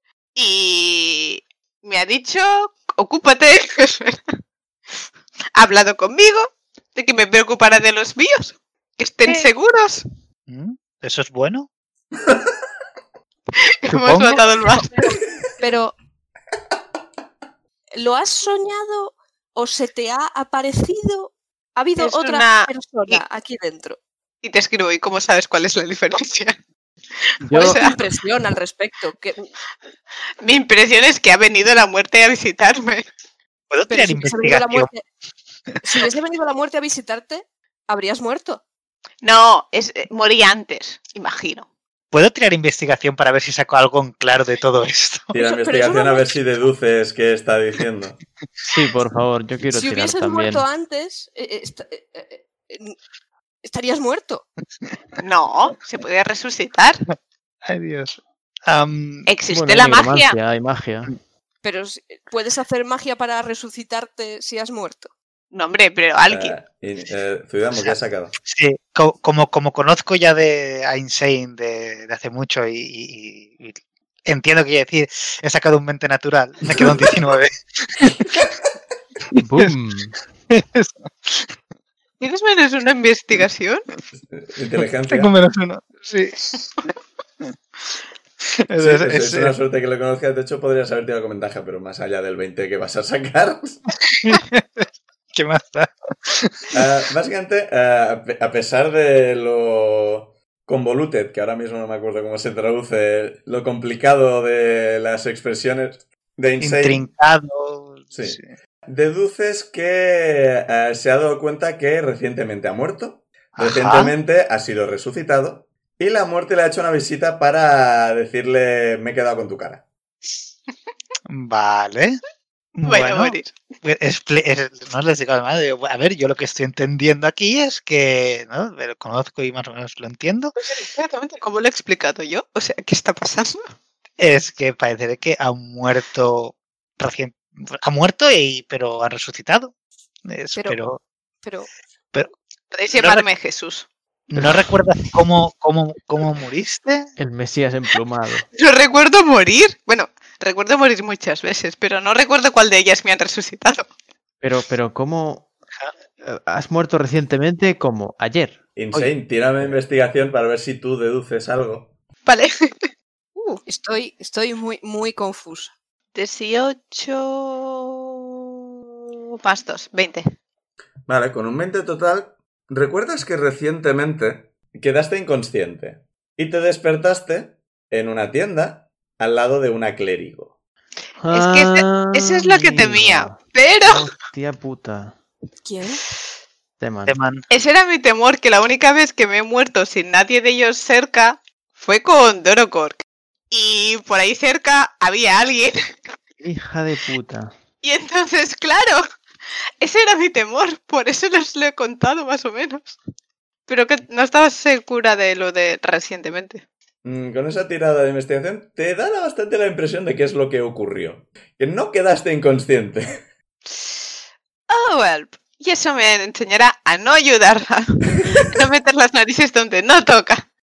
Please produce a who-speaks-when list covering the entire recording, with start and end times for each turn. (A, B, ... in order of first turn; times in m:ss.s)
0:00.3-0:04.4 A
0:05.5-0:10.0 A
0:10.5-0:11.7 B
0:13.5-0:15.0 A
0:13.9-0:14.4 B
0:15.0-0:15.9 C
0:17.9-0:24.0 C
0:22.0-0:23.2 A
0:24.4-0:26.6 A
0:27.2-0:28.0 A
0:27.4-0:27.8 D
0:27.5-0:29.5 C
0:30.4-0:33.0 A
0:33.7-0:34.9 B
0:33.9-0:35.0 C
0:35.7-0:36.0 B
0:35.8-0:38.6 C
0:39.2-0:41.7 A
0:42.1-0:45.3 B
0:45.3-0:48.2 E
0:45.4-0:46.4 C
0:48.6-0:50.6 D
0:49.7-0:53.0 C
0:53.6-0:54.4 C
0:55.2-0:57.0 A
0:57.6-0:59.3 B
0:59.3-1:00.4 A
0:59.5-1:01.1 D
1:01.6-1:05.1 C
1:05.5-1:06.5 A
1:06.3-1:08.3 E
1:07.7-1:18.5 B
1:19.3-1:19.7 B
1:19.4-1:20.2 D
1:20.5-1:21.6 B
1:22.2-1:23.8 A
1:24.2-1:25.3 E
1:25.0-1:26.8 B
1:28.4-1:29.6 B
1:28.8-1:33.8 E
1:34.0-1:36.8 B
1:36.7-1:47.0 E
1:46.6-1:48.4 B
1:48.1-1:59.8 E
1:53.6-1:54.1 B
2:01.3-2:02.2 B
2:02.7-2:10.5 B
2:02.8-2:03.5 A
2:10.6-2:13.7 A
2:14.2-2:19.7 B
2:20.3-2:21.0 B
2:20.5-2:20.8 C
2:21.4-2:21.7 C
2:22.7-2:23.9 A
2:22.9-2:23.2 B
2:24.3-2:27.1 B
2:27.2-2:28.4 D
2:28.5-2:33.9 A
2:34.4-2:35.5 D
2:36.2-2:39.8 D
2:38.8-2:41.9 E
2:42.2-2:42.9 A
2:43.4-2:45.7 C
2:46.1-2:48.5 A
2:49.1-2:50.2 A
2:51.1-3:00.5 E
3:01.2-3:05.2 D
3:01.3-3:04.1 A
3:05.6-3:06.0 C
3:06.8-3:07.2 D
3:07.1-3:07.4 B
3:07.5-3:15.9 A
3:16.4-3:17.5 D
3:17.8-3:19.0 A
3:19.8-3:23.0 A
3:23.7-3:26.6 A
3:27.0-3:33.2 E
3:33.7-3:34.1 A
3:34.7-3:40.4 A